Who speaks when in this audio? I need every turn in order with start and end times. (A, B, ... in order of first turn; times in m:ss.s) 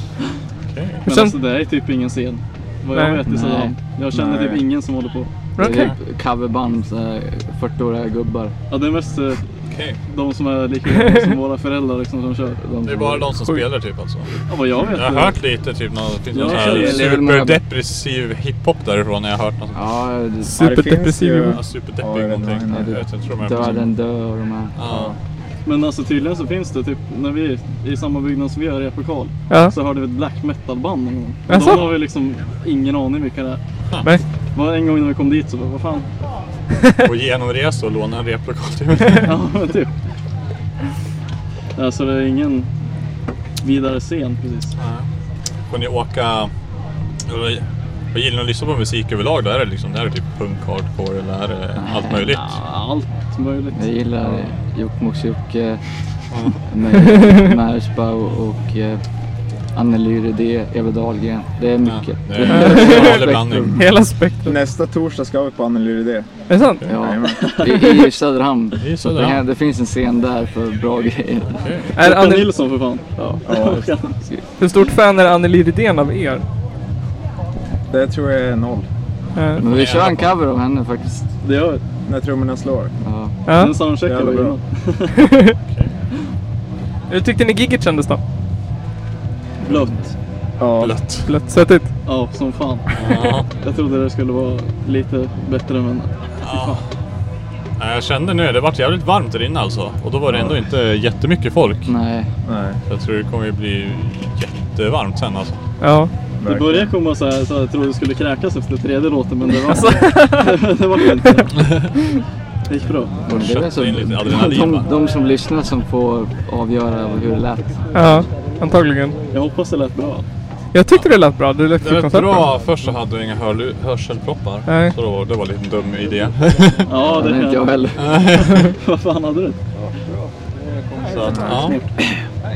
0:00.7-0:01.1 A
0:01.1-0:05.5 B
0:01.1-0:01.4 C
0:02.9-0:03.2 C
0:03.2-0:03.8 D
0:04.1-0:04.6 E
0:05.6-0:05.9 C
0:05.6-0:08.5 D
0:08.7-0:09.4 B
0:09.7-0:10.0 A
0:10.0-0:12.6 B
0:12.6-0:13.3 D
0:12.8-0:14.4 A
0:14.5-0:15.4 B
0:14.9-0:19.9 A
0:16.3-0:17.1 B
0:16.4-0:17.6 D
0:19.7-0:20.7 D
0:20.4-0:21.6 C
0:20.6-0:23.0 E
0:21.5-0:23.9 A
0:22.7-0:24.7 D
0:24.7-0:25.2 A
0:24.9-0:25.2 E
0:25.6-0:33.6 B
0:31.5-0:31.9 C
0:34.5-0:36.1 B
0:37.0-0:39.3 A
0:39.2-0:39.9 B
0:41.8-0:42.7 B
0:43.6-0:44.7 B
0:44.8-0:45.1 A
0:45.7-0:46.5 A
0:47.3-0:52.5 A
0:51.8-0:52.3 D
0:52.3-0:53.8 B
0:53.7-0:55.8 D
0:54.2-0:54.5 A
0:56.3-0:56.6 A
0:56.7-0:59.0 D
0:59.7-1:03.8 D
1:01.8-1:03.8 A
1:02.4-1:04.6 C
1:04.4-1:07.6 E
1:06.5-1:06.8 C
1:06.9-1:11.6 D
1:07.4-1:07.6 B
1:07.7-1:08.1 C
1:08.8-1:09.4 A
1:11.6-1:11.9 A
1:11.9-1:12.5 C
1:12.0-1:14.2 B
1:13.4-1:13.9 E
1:14.6-1:16.4 C
1:17.9-1:18.9 E
1:19.3-1:19.6 C
1:19.5-1:20.4 A
1:19.6-1:21.3 D
1:21.4-1:21.8 B
1:22.0-1:22.9 E
1:23.0-1:23.4 D
1:23.4-1:23.8 C
1:23.6-1:25.2 B
1:23.9-1:24.6 E
1:25.2-1:25.6 C
1:25.7-1:25.9 A
1:27.1-1:28.2 C
1:29.6-1:30.1 B
1:30.6-1:31.0 E
1:30.8-1:31.4 A
1:31.2-1:31.9 C
1:32.0-1:32.9 B
1:32.9-1:33.5 A
1:33.6-1:36.8 B
1:36.4-1:36.8 A
1:37.8-1:41.9 A
1:40.3-1:40.6 E
1:41.8-1:42.3 D
1:42.4-1:42.8 E
1:42.9-1:45.6 A
1:45.8-1:46.1 C
1:46.4-1:46.9 E
1:46.4-1:51.9 B
1:49.7-1:50.6 C
1:51.6-1:51.9 A
1:52.7-1:53.2 B
1:53.2-1:54.9 A
1:53.2-1:58.2 D
1:57.9-1:59.2 C
1:59.3-2:00.2 B
2:00.7-2:02.5 C
2:01.8-2:06.9 A
2:04.6-2:05.0 C
2:06.9-2:07.7 B
2:07.0-2:08.1 D
2:08.0-2:08.7 A
2:08.2-2:09.6 B
2:11.0-2:11.8 A
2:11.5-2:11.9 B